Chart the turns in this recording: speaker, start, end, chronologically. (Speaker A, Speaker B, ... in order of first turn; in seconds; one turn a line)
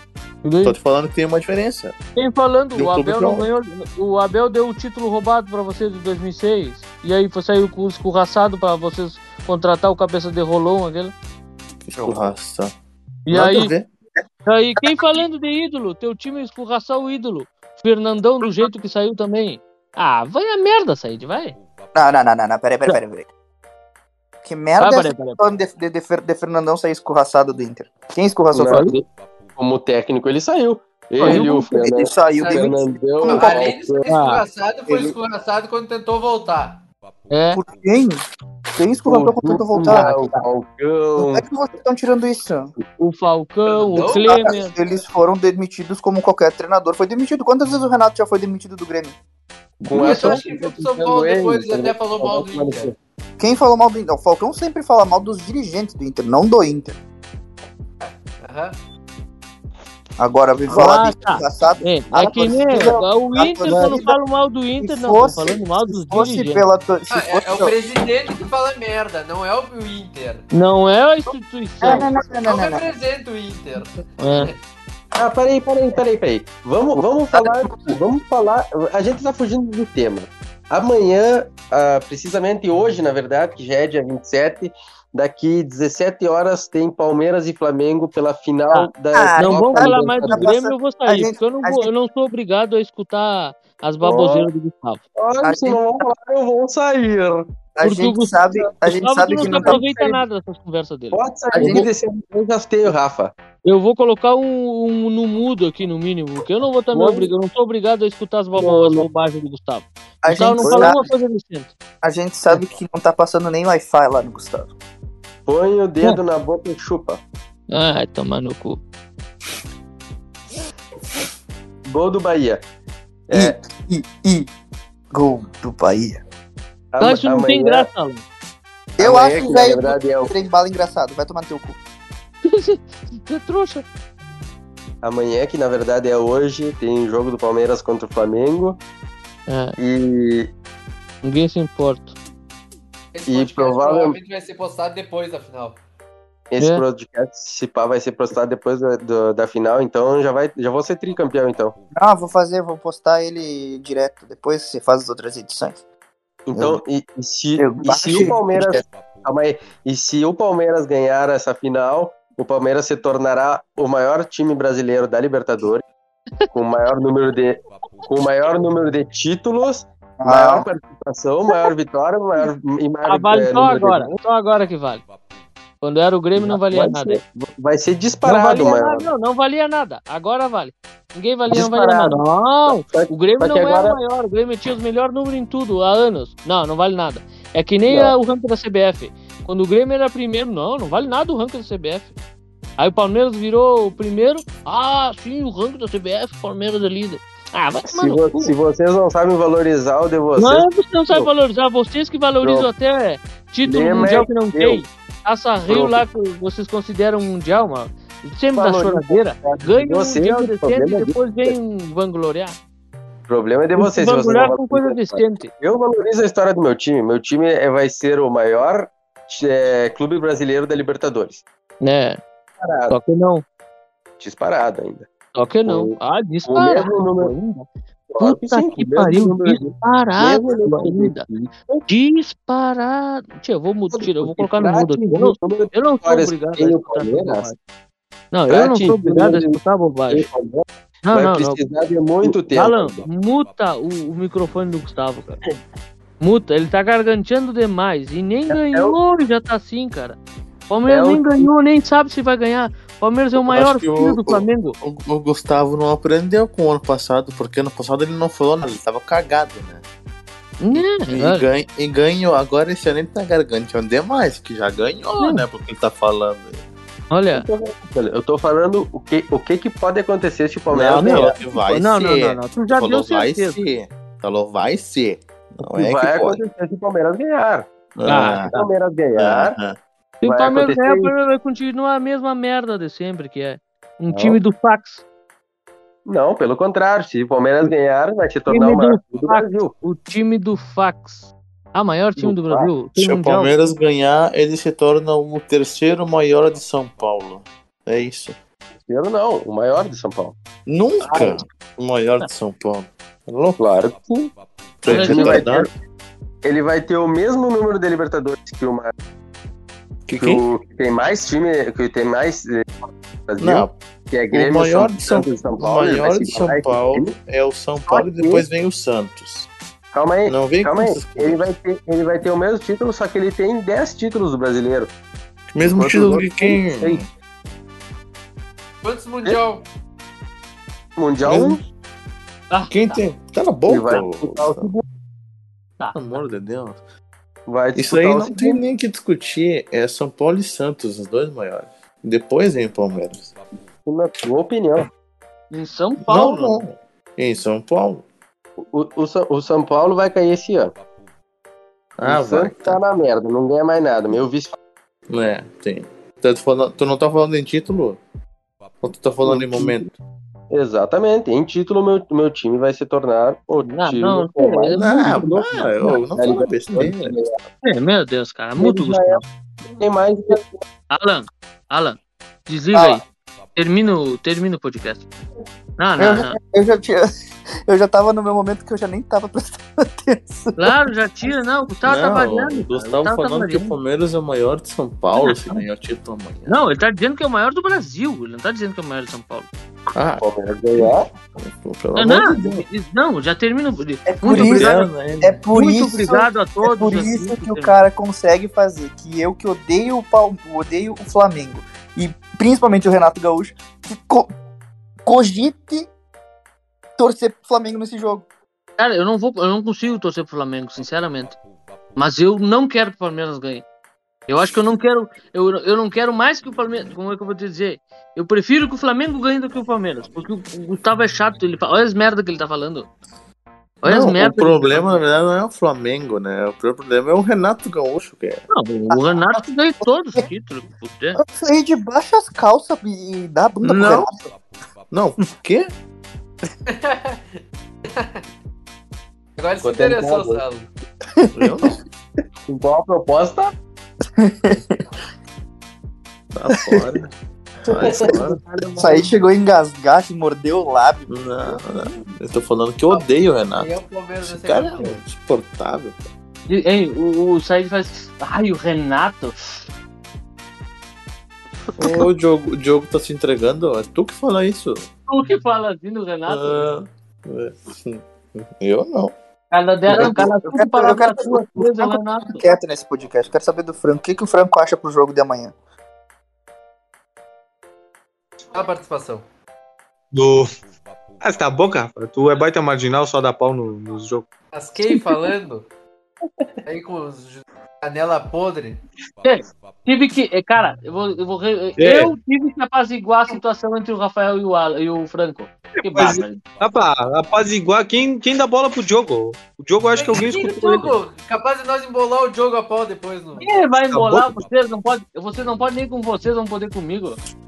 Speaker A: 0.4-0.8
Speaker B: 0.6-1.9
Speaker A: 2.1-11.1
Speaker B: 2.7-3.5
Speaker B: 11.8-12.7
Speaker C: 11.9-12.3
Speaker A: 13.3-13.7
Speaker B: 13.3-13.9
Speaker A: 14.4-21.6
Speaker C: 21.9-23.3
Speaker C: 24.4-28.9
Speaker A: 24.8-25.4
Speaker D: 28.5-29.0
Speaker A: 28.7-28.9
Speaker D: 29.6-34.0
Speaker A: 31.2-31.7
Speaker C: 31.3-33.5
Speaker E: 32.3-32.7
Speaker E: 33.2-36.8
Speaker A: 34.0-34.4
Speaker C: 34.9-35.1
Speaker A: 37.3-37.6
Speaker C: 37.5-38.2
Speaker C: 38.7-40.2
Speaker D: 39.0-41.4
Speaker A: 39.8-40.4
Speaker C: 41.2-42.7
Speaker A: 43.0-44.7
Speaker E: 43.9-44.4
Speaker C: 44.2-49.1
Speaker A: 49.8-50.4
Speaker D: 49.9-52.9
Speaker E: 49.9-52.9
Speaker C: 53.4-57.0
Speaker E: 58.0-58.8
Speaker C: 60.2-64.2
Speaker A: 60.7-66.6
Speaker C: 64.8-67.8
Speaker E: 67.1-70.4
Speaker A: 70.5-72.1
Speaker C: 71.8-72.9
Speaker E: 71.9-74.5
Speaker A: 74.2-74.5
Speaker D: 75.1-90.5
Speaker C: 77.3-78.0
Speaker A: 88.7-95.0
Speaker C: 89.1-91.9
Speaker D: 94.0-94.5
Speaker D: 95.2-97.5
Speaker C: 95.4-95.8
Speaker C: 97.8-100.1
Speaker A: 97.8-101.8
Speaker D: 99.4-99.8
Speaker D: 101.1-103.3
Speaker C: 101.5-101.9
Speaker A: 103.6-111.7
Speaker D: 106.9-107.3
Speaker D: 108.5-109.0
Speaker C: 110.2-111.0
Speaker D: 110.6-111.0
Speaker C: 112.0-114.7
Speaker D: 115.5-117.2
Speaker A: 117.7-118.8
Speaker D: 121.9-122.6
Speaker D: 123.3-123.6
Speaker C: 123.3-124.5
Speaker C: 125.1-126.2
Speaker D: 126.9-127.9
Speaker A: 127.0-128.2
Speaker C: 129.0-131.8
Speaker D: 129.0-130.3
Speaker A: 132.4-133.8
Speaker D: 135.0-138.8
Speaker A: 139.5-139.8
Speaker D: 139.8-140.5
Speaker A: 141.2-142.1
Speaker E: 143.1-145.8
Speaker D: 143.3-144.2
Speaker D: 146.5-151.8
Speaker C: 151.9-155.8
Speaker D: 156.5-165.8
Speaker C: 156.5-156.8
Speaker C: 157.6-158.8
Speaker D: 166.5-174.1
Speaker C: 170.2-170.7
Speaker A: 173.0-175.0
Speaker A: 175.8-177.2
Speaker D: 176.3-179.1
Speaker A: 178.2-192.1
Speaker D: 181.5-184.0
Speaker D: 187.9-188.1
Speaker A: 192.8-198.5
Speaker D: 197.9-201.3
Speaker A: 200.4-212.6
Speaker D: 202.4-202.7
Speaker D: 203.7-204.8
Speaker D: 205.7-206.0
Speaker D: 208.6-211.5
Speaker D: 213.3-221.4
Speaker A: 213.8-215.5
Speaker A: 221.8-222.2
Speaker D: 222.6-222.9
Speaker A: 222.9-223.4
Speaker D: 224.2-225.1
Speaker A: 225.3-227.7
Speaker D: 225.7-227.3
Speaker D: 228.1-231.9
Speaker A: 228.2-231.2
Speaker A: 231.9-237.5
Speaker D: 233.9-237.5
Speaker A: 238.3-240.3
Speaker D: 238.5-239.6
Speaker D: 240.1-243.1
Speaker A: 241.0-241.6
Speaker A: 242.2-245.4
Speaker A: 246.2-250.2
Speaker D: 248.5-248.9
Speaker A: 250.7-254.8
Speaker D: 250.9-251.5
Speaker B: 253.4-259.8
Speaker A: 260.6-261.4
Speaker B: 260.7-266.6
Speaker A: 265.2-265.4
Speaker A: 267.1-267.4
Speaker D: 267.3-271.3
Speaker B: 270.7-276.4
Speaker A: 270.9-273.6
Speaker D: 275.7-277.7
Speaker B: 277.9-278.5
Speaker A: 278.1-278.7
Speaker D: 278.2-279.6
Speaker B: 279.2-279.8
Speaker A: 280.2-285.0
Speaker D: 280.2-281.1
Speaker D: 284.1-284.4
Speaker D: 286.1-289.7
Speaker A: 288.5-293.6
Speaker D: 292.2-292.7
Speaker B: 292.9-298.4
Speaker D: 298.8-300.4
Speaker B: 300.7-303.6
Speaker A: 301.0-301.4
Speaker D: 303.6-304.3
Speaker B: 304.8-305.7
Speaker A: 304.9-305.6
Speaker D: 304.9-305.7
Speaker D: 306.4-308.9
Speaker B: 310.1-310.4
Speaker D: 310.2-312.7
Speaker D: 313.3-317.1
Speaker B: 313.4-313.7
Speaker B: 314.3-319.5
Speaker D: 317.9-318.4
Speaker D: 319.9-324.9
Speaker B: 320.3-321.4
Speaker B: 325.5-327.1
Speaker D: 325.6-327.0
Speaker E: 328.8-329.6
Speaker D: 331.0-331.6
Speaker B: 331.2-331.6
Speaker A: 332.5-333.0
Speaker B: 332.7-334.7
Speaker D: 333.7-334.8
Speaker B: 335.9-336.8
Speaker D: 337.5-338.6
Speaker B: 337.8-343.3
Speaker D: 343.9-344.9
Speaker A: 345.5-346.6
Speaker B: 346.0-348.0
Speaker D: 348.7-350.7
Speaker B: 352.0-352.8
Speaker D: 352.0-354.6
Speaker B: 355.1-358.0
Speaker B: 358.8-359.9
Speaker D: 359.2-359.8
Speaker D: 360.5-367.3
Speaker A: 363.6-366.0
Speaker B: 364.7-367.1
Speaker A: 367.6-369.2
Speaker D: 368.6-370.6
Speaker A: 370.9-373.0
Speaker C: 372.7-373.0
Speaker A: 373.6-375.1
Speaker A: 375.8-376.4
Speaker C: 376.0-377.1
Speaker C: 377.6-380.7
Speaker A: 380.6-383.7
Speaker B: 381.8-386.6
Speaker A: 385.1-385.6
Speaker A: 386.5-389.5
Speaker B: 389.9-392.6
Speaker D: 390.2-391.1
Speaker A: 391.9-394.9
Speaker C: 394.1-404.3
Speaker B: 394.2-395.4
Speaker A: 395.5-397.7
Speaker C: 405.0-405.9
Speaker C: 407.0-408.2
Speaker A: 408.8-411.4
Speaker A: 411.9-413.6
Speaker A: 414.3-422.9
Speaker B: 423.8-428.4
Speaker A: 423.8-425.0
Speaker A: 428.5-431.2
Speaker C: 428.9-429.4
Speaker C: 431.2-434.3
Speaker B: 433.6-434.1
Speaker B: 434.9-435.7
Speaker E: 436.7-438.2
Speaker E: 439.4-440.7
Speaker D: 439.6-440.4
Speaker C: 441.1-441.7
Speaker B: 441.3-441.8
Speaker D: 442.5-443.5
Speaker C: 444.2-444.7
Speaker B: 446.3-447.1
Speaker C: 446.5-447.0
Speaker B: 447.6-448.4
Speaker D: 447.8-448.1
Speaker A: 448.1-449.1
Speaker C: 448.8-451.6
Speaker B: 451.1-456.0
Speaker E: 452.9-455.0
Speaker A: 456.5-459.4
Speaker B: 461.8-464.9
Speaker A: 465.1-466.7
Speaker B: 466.3-469.1
Speaker A: 469.5-472.4
Speaker C: 469.9-475.5
Speaker E: 478.5-479.2
Speaker F: 480.1-480.5
Speaker F: 481.2-484.2
Speaker E: 484.5-485.6
Speaker E: 486.6-488.8
Speaker A: 489.2-496.4
Speaker F: 491.8-492.1
Speaker F: 495.8-500.9
Speaker E: 499.9-503.6
Speaker A: 503.4-507.2
Speaker F: 503.9-504.3